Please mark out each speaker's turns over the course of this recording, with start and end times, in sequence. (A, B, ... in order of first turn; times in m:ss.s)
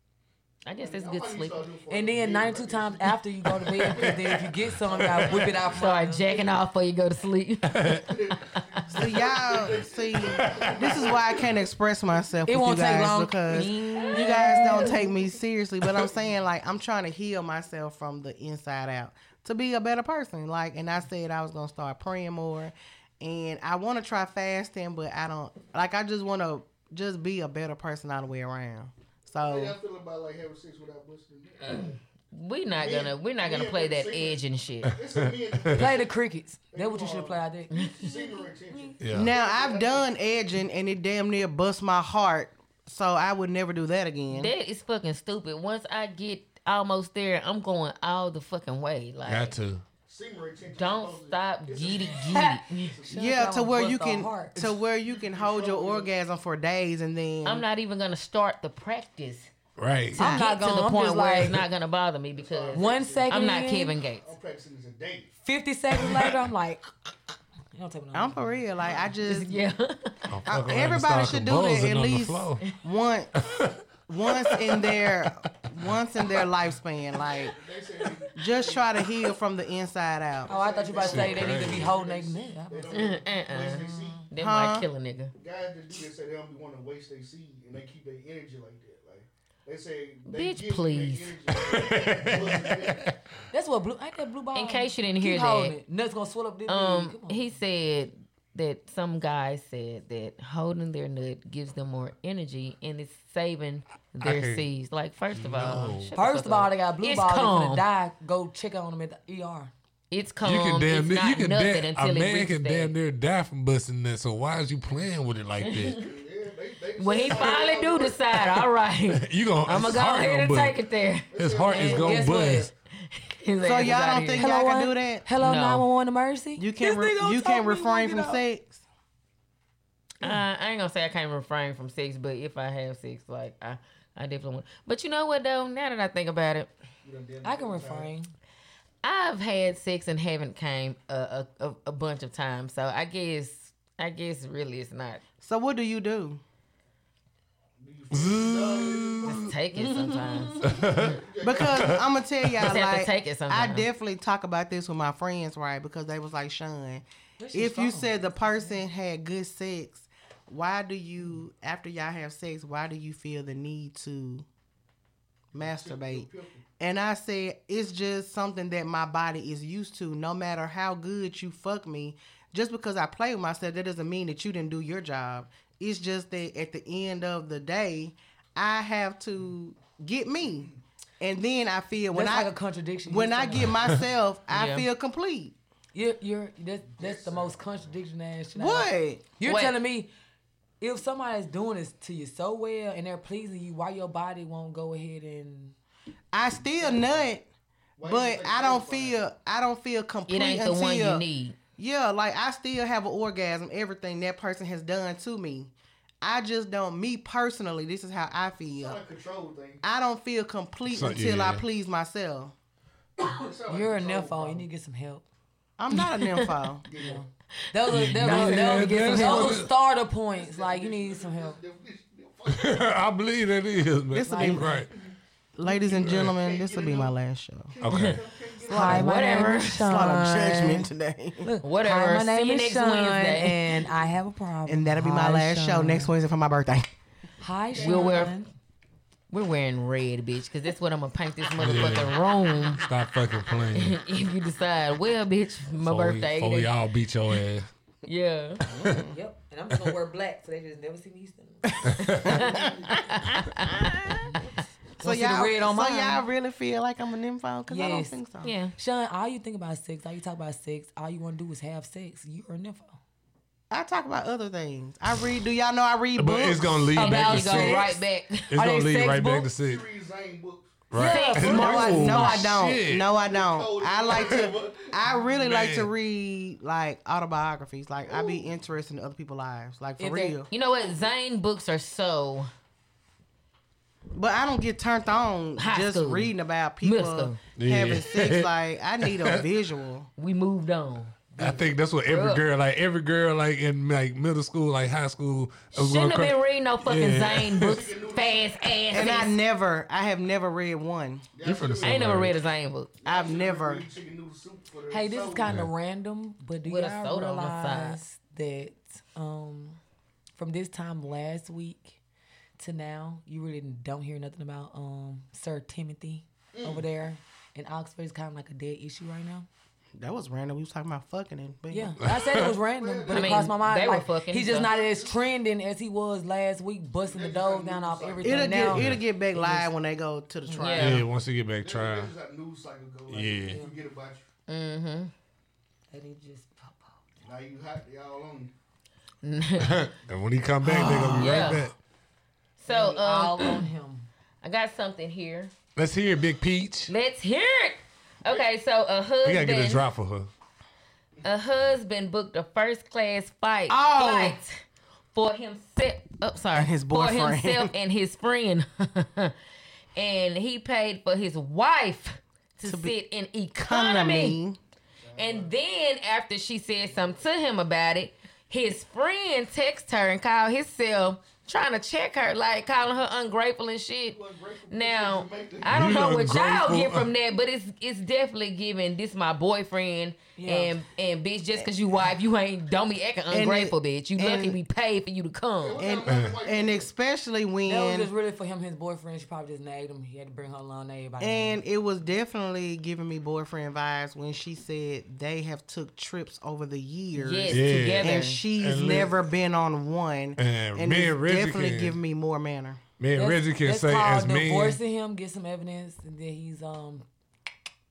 0:00.6-0:01.6 A
0:00.8-0:05.8 B
0:01.9-0:06.3 C
0:05.0-0:05.5 D
0:05.7-0:08.0 A
0:07.7-0:08.0 D
0:08.0-0:11.6 B
0:08.9-0:29.8 E
0:10.4-0:11.0 D
0:12.4-0:15.0 C
0:14.1-0:14.8 A
0:29.3-0:32.0 B
0:32.3-0:35.0 A
0:32.8-0:36.1 B
0:35.1-0:35.8 D
0:35.7-0:38.9 C
0:36.7-0:37.4 B
0:38.0-0:40.1 B
0:39.0-0:39.3 D
0:39.1-0:44.5 E
0:44.3-0:49.5 A
0:49.2-0:49.8 D
0:50.0-0:53.3 B
0:50.7-0:53.0 A
0:53.1-0:54.6 C
0:53.1-0:57.6 E
0:54.6-0:56.1 B
0:57.4-0:59.5 A
0:59.8-1:00.2 D
1:00.2-1:01.6 C
1:00.2-1:04.3 A
1:02.4-1:03.5 B
1:02.7-1:03.9 C
1:04.2-1:05.3 B
1:05.4-1:06.9 C
1:07.7-1:08.6 C
1:08.1-1:09.6 E
1:08.8-1:09.1 B
1:09.2-1:10.2 A
1:10.3-1:12.6 D
1:10.5-1:13.3 E
1:13.4-1:15.3 D
1:14.1-1:17.6 E
1:17.2-1:18.9 B
1:18.4-1:20.5 E
1:20.5-1:23.2 C
1:20.5-1:24.3 B
1:21.0-1:21.9 D
1:22.9-1:25.3 A
1:23.9-1:24.2 C
1:24.4-1:24.8 E
1:25.4-1:33.1 B
1:30.3-1:31.4 A
1:31.5-1:33.1 D
1:33.5-1:37.5 C
1:34.5-1:35.7 A
1:36.7-1:47.8 A
1:44.2-1:44.6 D
1:45.3-1:46.1 D
1:46.2-1:49.7 C
1:50.1-1:52.9 A
1:50.4-1:56.0 D
1:55.6-1:56.0 A
1:56.0-1:58.4 B
1:57.0-2:02.0 A
1:59.1-2:00.8 D
2:01.3-2:02.3 B
2:01.4-2:02.7 D
2:01.8-2:02.7 C
2:03.2-2:04.5 A
2:03.6-2:05.2 E
2:04.4-2:08.4 C
2:05.4-2:05.8 A
2:06.6-2:08.8 E
2:10.2-2:16.7 A
2:17.0-2:18.1 B
2:17.4-2:18.3 C
2:19.0-2:25.2 A
2:25.4-2:26.4 E
2:27.8-2:29.4 B
2:28.1-2:29.5 D
2:29.2-2:30.7 A
2:29.8-2:30.8 C
2:30.6-2:32.0 D
2:30.7-2:32.0 B
2:31.4-2:44.4 E
2:32.6-2:33.9 A
2:37.4-2:38.7 C
2:45.5-2:46.6 B
2:45.6-3:02.5 E
3:02.1-3:03.8 C
3:03.0-3:05.5 E
3:04.5-3:04.9 A
3:05.9-3:10.1 C
3:06.9-3:07.8 B
3:08.6-3:09.2 E
3:09.4-3:09.8 A
3:10.8-3:15.7 C
3:16.3-3:17.4 E
3:16.8-3:17.2 B
3:18.0-3:19.2 B
3:18.0-3:21.2 E
3:20.3-3:21.6 A
3:21.8-3:29.0 E
3:28.8-3:29.8 B
3:29.8-3:32.5 E
3:30.8-3:31.6 D
3:33.2-3:34.7 B
3:33.7-3:35.2 C
3:35.8-3:36.9 E
3:35.9-3:36.5 A
3:36.8-3:37.2 B
3:37.0-3:41.6 C
3:37.9-3:39.7 D
3:37.9-3:39.5 A
3:40.3-3:42.8 B
3:42.5-3:44.9 D
3:44.1-3:44.8 E
3:44.3-3:44.6 C
3:45.6-3:47.7 E
3:45.7-3:47.1 B
3:46.0-3:46.3 D
3:47.7-3:49.2 B
3:47.8-3:48.2 D
3:48.7-3:50.9 C
3:48.7-3:51.5 E
3:48.8-3:50.0 A
3:51.4-3:56.1 C
3:51.6-3:53.6 A
3:54.7-3:56.9 E
3:57.4-3:58.5 C
3:57.7-3:58.3 B
3:57.8-3:58.4 A
3:59.3-4:02.8 A
4:01.6-4:02.2 D
4:02.7-4:04.0 D
4:03.7-4:06.7 A
4:05.8-4:07.7 D
4:08.0-4:08.6 A
4:08.7-4:09.0 D
4:08.7-4:09.2 E
4:09.0-4:11.8 C
4:11.7-4:14.3 E
4:11.8-4:12.4 D
4:12.2-4:12.5 A
4:12.5-4:12.9 B
4:13.2-4:13.8 A
4:15.0-4:16.2 C
4:15.0-4:18.5 E
4:17.7-4:18.2 C
4:18.4-4:18.7 A
4:18.8-4:23.0 C
4:23.7-4:26.9 E
4:26.2-4:27.9 D
4:27.0-4:28.5 A
4:27.0-4:28.0 C
4:28.5-4:29.8 D
4:28.5-4:29.5 C
4:29.6-4:30.8 B
4:30.9-4:33.1 D
4:30.9-4:32.3 C
4:31.0-4:32.6 A
4:31.4-4:40.5 E
4:33.2-4:35.0 B
4:35.4-4:35.9 D
4:38.0-4:38.4 B
4:40.0-4:40.4 C
4:40.5-4:42.5 A
4:44.1-4:50.1 E
4:45.6-4:47.4 A
4:47.6-4:49.4 D
4:50.2-4:52.4 A
4:51.4-4:57.8 D
4:55.7-4:59.3 A
4:57.6-4:59.1 B
4:58.9-5:01.3 E
5:01.4-5:02.3 B
5:01.4-5:02.3 D
5:01.8-5:02.9 A
5:03.0-5:05.6 B
5:03.0-5:03.9 E
5:04.9-5:09.8 C
5:06.6-5:08.0 A
5:10.4-5:12.0 C
5:12.6-5:19.5 C
5:16.5-5:16.8 B
5:20.0-5:22.0 E
5:21.7-5:29.7 C
5:22.0-5:22.5 D
5:22.6-5:23.5 B
5:23.1-5:24.7 A
5:24.4-5:25.2 B
5:27.0-5:28.8 B
5:28.2-5:31.0 E
5:28.7-5:29.0 D
5:30.5-5:31.0 A
5:30.8-5:32.1 D
5:31.6-5:34.2 B
5:33.1-5:33.6 D
5:34.5-5:35.1 A
5:35.9-5:36.9 C
5:37.2-5:38.5 B
5:39.2-5:39.7 A
5:39.6-5:41.7 D
5:40.6-5:41.3 C
5:40.8-5:41.7 A
5:42.6-5:43.6 A
5:42.7-5:44.1 C
5:44.4-5:45.5 A
5:45.8-5:46.9 D
5:46.9-5:49.8 A
5:49.2-5:50.3 D
5:51.2-5:54.6 A
5:53.7-5:54.4 E
5:55.1-5:59.3 A
5:56.5-5:57.7 E
5:59.9-6:04.4 A
6:02.6-6:02.9 E
6:03.6-6:04.6 E
6:05.0-6:05.5 B
6:05.2-6:14.2 A
6:06.8-6:07.2 B
6:14.1-6:16.0 B
6:14.7-6:25.8 A
6:15.7-6:17.1 D
6:20.4-6:20.7 C
6:23.3-6:24.6 E
6:25.6-6:26.9 B
6:25.8-6:28.1 E
6:26.1-6:26.3 D
6:27.6-6:31.6 C
6:31.2-6:42.8 E
6:37.1-6:38.4 A
6:37.5-6:39.2 D
6:40.4-6:42.0 D
6:43.0-6:44.8 D
6:43.1-6:47.0 C